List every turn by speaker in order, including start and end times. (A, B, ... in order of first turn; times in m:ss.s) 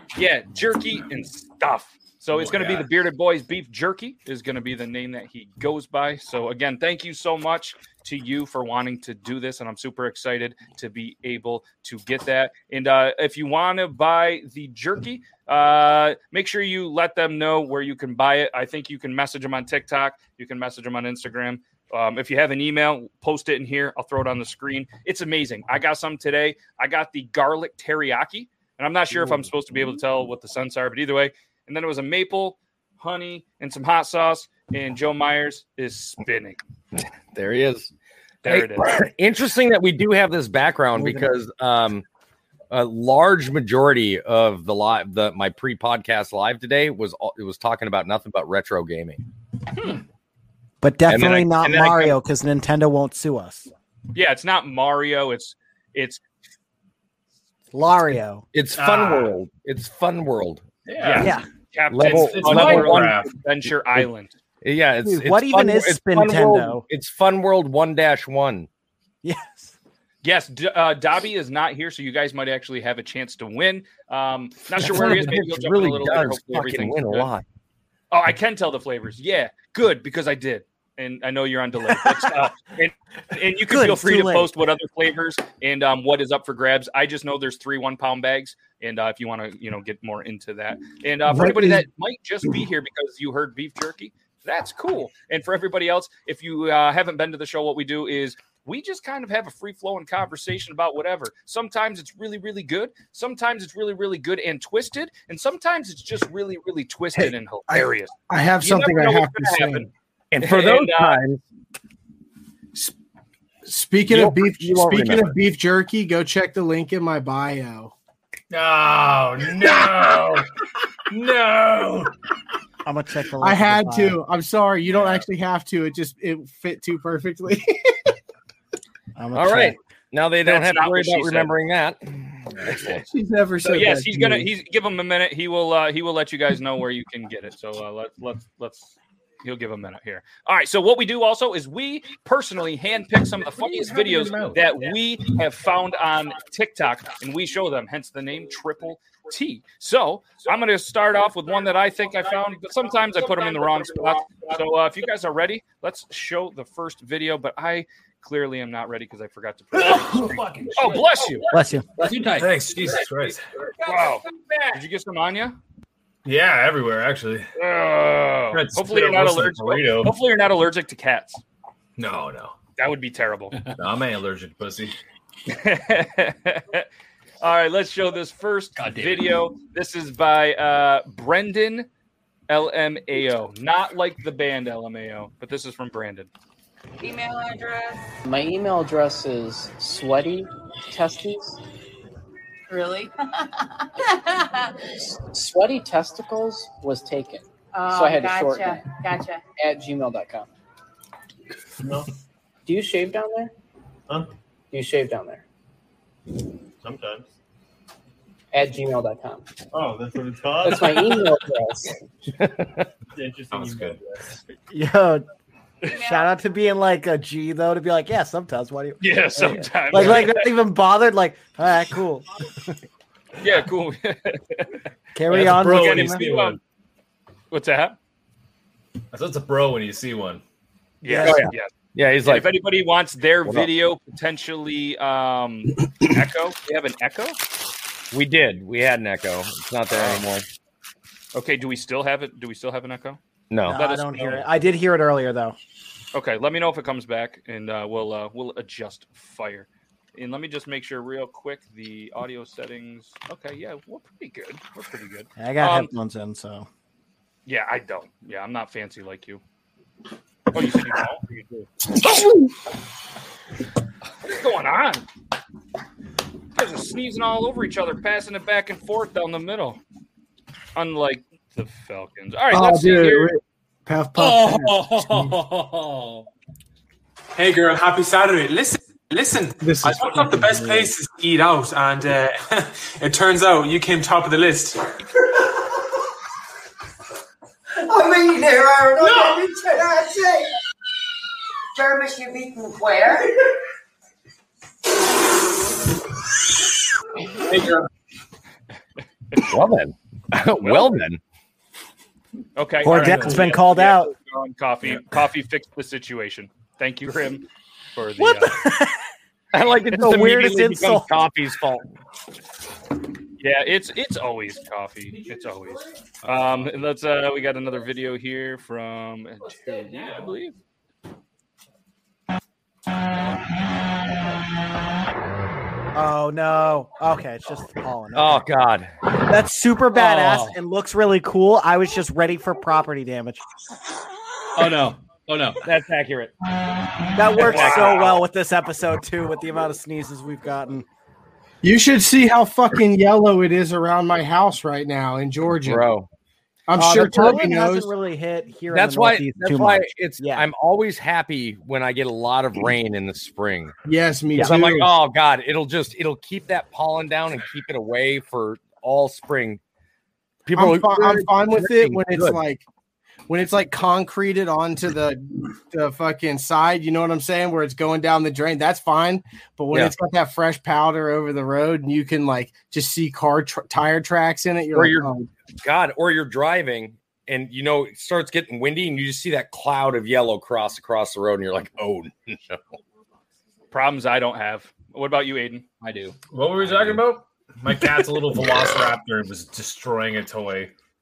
0:00.1-0:36.6 A
0:02.3-0:02.8 B
0:37.0-0:37.9 C
0:38.4-0:39.0 A
0:38.4-0:42.0 C
0:41.0-0:41.3 D
0:42.7-0:49.2 C
0:50.8-0:53.7 E
0:51.0-0:52.2 C
0:54.1-0:56.2 A
0:57.7-0:58.4 E
0:58.5-1:00.6 C
0:58.7-0:59.3 B
1:00.9-1:01.3 B
1:01.0-1:04.4 A
1:01.2-1:01.4 E
1:01.9-1:03.2 C
1:02.0-1:03.3 B
1:04.6-1:08.7 C
1:05.0-1:06.8 E
1:09.2-1:09.7 E
1:10.2-1:17.3 A
1:14.7-1:17.4 C
1:18.1-1:51.2 A
1:23.6-1:24.5 E
1:31.2-1:31.8 D
1:47.2-1:49.9 D
1:50.3-1:51.4 C
1:53.6-1:57.9 D
1:54.0-1:55.4 C
1:58.5-2:00.5 B
2:01.1-2:02.1 B
2:02.8-2:04.2 E
2:03.4-2:07.9 D
2:09.2-2:09.8 E
2:09.3-2:13.0 C
2:10.4-2:11.5 A
2:12.8-2:14.5 D
2:13.6-2:41.5 A
2:23.4-2:24.6 B
2:39.8-2:41.3 B
2:41.5-2:41.9 E
2:42.0-2:43.0 F
2:42.3-2:43.4 B
2:43.8-2:44.2 A
2:44.7-2:45.6 A
2:46.2-2:47.5 B
2:47.6-2:51.4 A
2:48.5-2:50.1 B
2:52.0-2:52.6 B
2:52.8-2:53.6 A
2:53.8-2:55.0 B
2:55.5-2:56.9 A
2:57.4-3:01.9 A
2:58.8-2:59.2 F
3:02.5-3:06.3 A
3:07.0-3:08.1 G
3:08.2-3:11.6 H
3:12.7-3:14.7 G
3:15.2-3:19.0 H
3:17.7-3:19.4 G
3:19.6-3:20.5 H
3:21.8-3:22.1 I
3:22.6-3:23.5 H
3:24.7-3:25.4 H
3:26.8-3:27.3 I
3:28.5-3:29.5 H
3:29.7-3:31.2 I
3:30.6-3:32.0 H
3:32.4-3:32.9 C
3:33.1-3:34.4 I
3:33.5-3:34.0 B
3:34.7-3:35.2 E
3:35.8-3:36.3 G
3:36.0-3:42.7 E
3:39.0-3:40.5 A
3:43.4-3:44.7 A
3:45.1-3:46.2 E
3:45.3-3:46.6 A
3:45.3-3:46.6 B
3:47.5-3:48.0 A
3:49.1-3:50.4 B
3:51.0-3:51.7 A
3:51.0-3:51.5 E
3:51.2-3:52.5 C
3:52.2-3:57.4 A
3:58.1-4:00.4 C
3:59.9-4:00.2 A
4:01.3-4:03.2 A
4:03.5-4:03.8 C
4:03.6-4:05.6 E
4:03.7-4:04.4 A
4:06.1-4:15.9 A
4:15.4-4:16.7 E
4:17.4-4:19.4 A
4:20.5-4:21.7 A
4:24.2-4:25.0 A
4:26.5-4:29.8 A
4:30.8-4:33.3 A
4:32.5-4:35.4 D
4:34.2-4:36.2 F
4:37.4-4:42.4 J
4:39.6-4:40.9 D
4:43.0-4:44.7 J
4:47.8-4:50.5 K
4:51.7-4:53.3 K
4:59.4-5:01.2 C
5:00.6-5:01.0 A
5:02.6-5:08.6 A
5:02.8-5:04.1 E
5:03.0-5:03.4 B
5:08.2-5:09.0 E
5:09.5-5:11.9 C
5:09.9-5:11.2 E
5:13.4-5:20.5 A
5:15.3-5:15.7 F
5:25.9-5:28.4 E
5:28.1-5:28.9 C
5:29.2-5:33.4 E
5:29.9-5:30.5 F
5:34.6-5:35.6 F
5:35.6-5:36.3 C
5:37.1-5:40.8 E
5:37.4-5:38.1 C
5:37.5-5:38.0 A
5:41.6-5:45.9 D
5:45.6-5:46.1 C
5:46.7-5:47.9 D
5:46.8-5:50.5 E
5:48.7-5:53.7 C
5:53.8-5:54.9 D
5:54.3-5:59.6 C
6:00.4-6:02.4 C
6:00.5-6:02.6 D
6:03.3-6:15.3 D
6:14.7-6:22.6 C
6:23.7-6:25.7 A
6:25.8-6:26.2 F
6:26.3-6:30.7 B